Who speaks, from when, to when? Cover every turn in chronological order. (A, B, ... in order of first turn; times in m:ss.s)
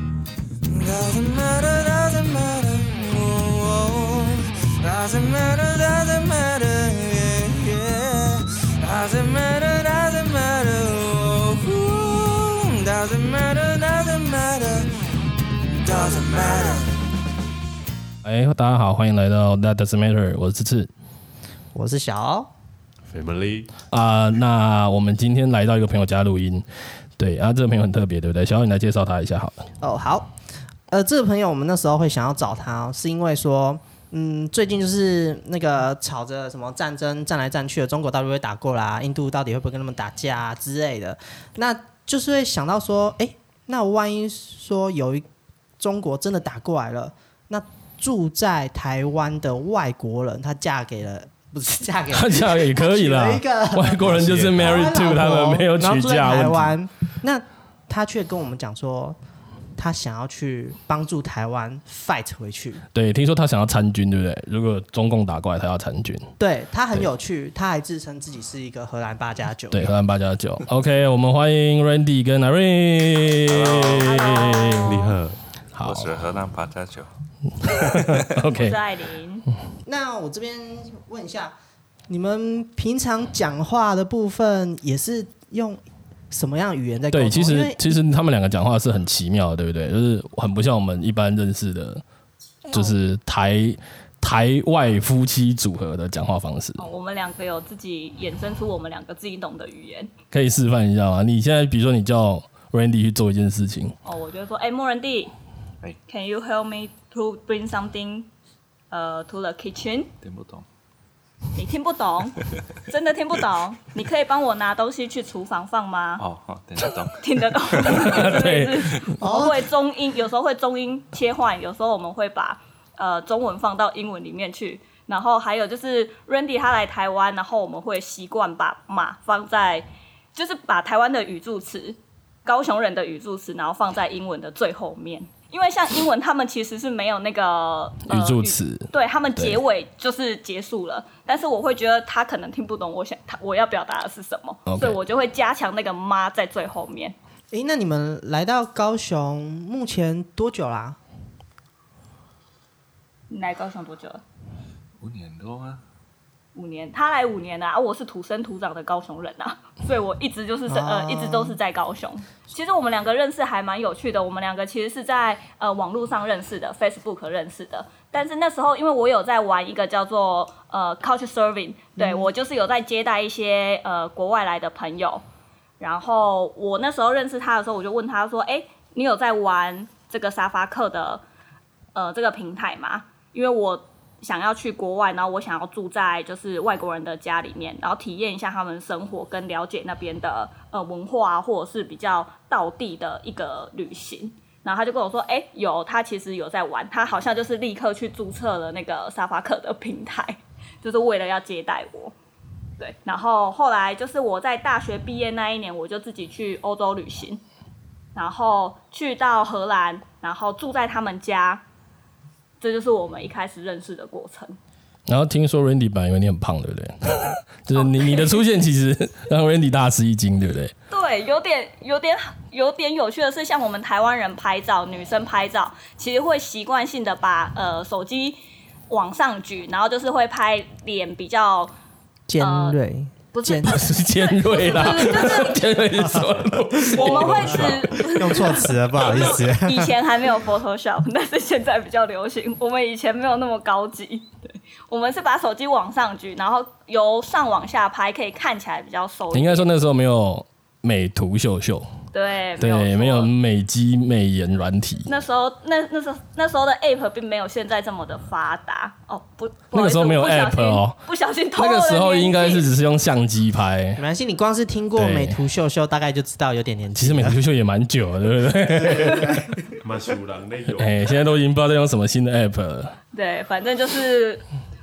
0:00.6-0:14.9 A
0:15.8-0:16.9 A
0:18.2-0:20.9 B
0:21.7-0:22.5 C
0:23.1-0:23.7 D
0:23.9-0:26.6 B
0:27.2-0:29.7 B
0:29.8-0:30.3 C
0:30.9-0:45.2 C
0:45.8-0:59.2 C
0:52.1-0:56.7 B
0:54.1-0:54.7 D
0:59.8-1:02.8 C
1:02.9-1:06.4 B
1:06.4-1:09.9 C
1:09.7-1:14.9 B
1:13.4-1:14.5 E
1:14.0-1:14.9 F
1:14.8-1:15.4 D
1:15.7-1:16.1 B
1:15.8-1:17.1 E
1:17.6-1:18.8 B
1:18.5-1:19.4 F
1:19.8-1:21.5 C
1:22.1-1:28.0 C
1:27.1-1:32.0 B
1:32.7-1:36.8 B
1:36.8-1:40.1 F
1:40.3-1:44.0 B
1:44.0-1:45.3 F
1:46.1-1:48.3 F
1:48.9-1:50.1 F
1:50.2-1:50.6 E
1:51.5-1:56.2 F
1:52.4-1:52.6 E
1:56.2-1:57.2 E
1:57.2-2:27.1 F
1:57.8-1:59.1 B
1:59.2-1:59.7 C
2:18.0-2:19.6 B
2:24.7-2:25.0 B
2:27.5-2:31.0 C
2:33.3-2:34.2 F
2:35.0-2:35.8 E
2:36.5-2:55.2 F
2:40.7-2:41.6 C
2:52.0-2:52.3 C
2:55.8-3:01.2 F
3:01.9-3:22.1 F
3:22.8-3:27.4 F
3:28.1-3:31.6 F
3:32.6-3:34.6 F
3:35.1-3:40.7 B
3:37.7-3:38.4 F
3:40.9-3:51.7 F
3:52.3-3:53.8 C
3:52.4-3:52.8 F
3:53.3-3:55.8 F
3:53.6-3:57.8 B
3:56.9-4:09.7 F
3:56.9-3:59.9 C
4:09.3-4:11.9 B
4:12.1-4:13.3 F
4:12.6-4:15.1 B
4:15.0-4:22.6 F
4:19.7-4:21.0 B
4:21.5-4:24.0 B
4:24.0-4:27.4 C
4:24.9-4:25.4 B
4:26.9-4:29.4 B
4:28.7-4:29.8 C
4:29.8-4:31.1 D
4:30.7-4:33.0 B
4:33.1-4:34.4 F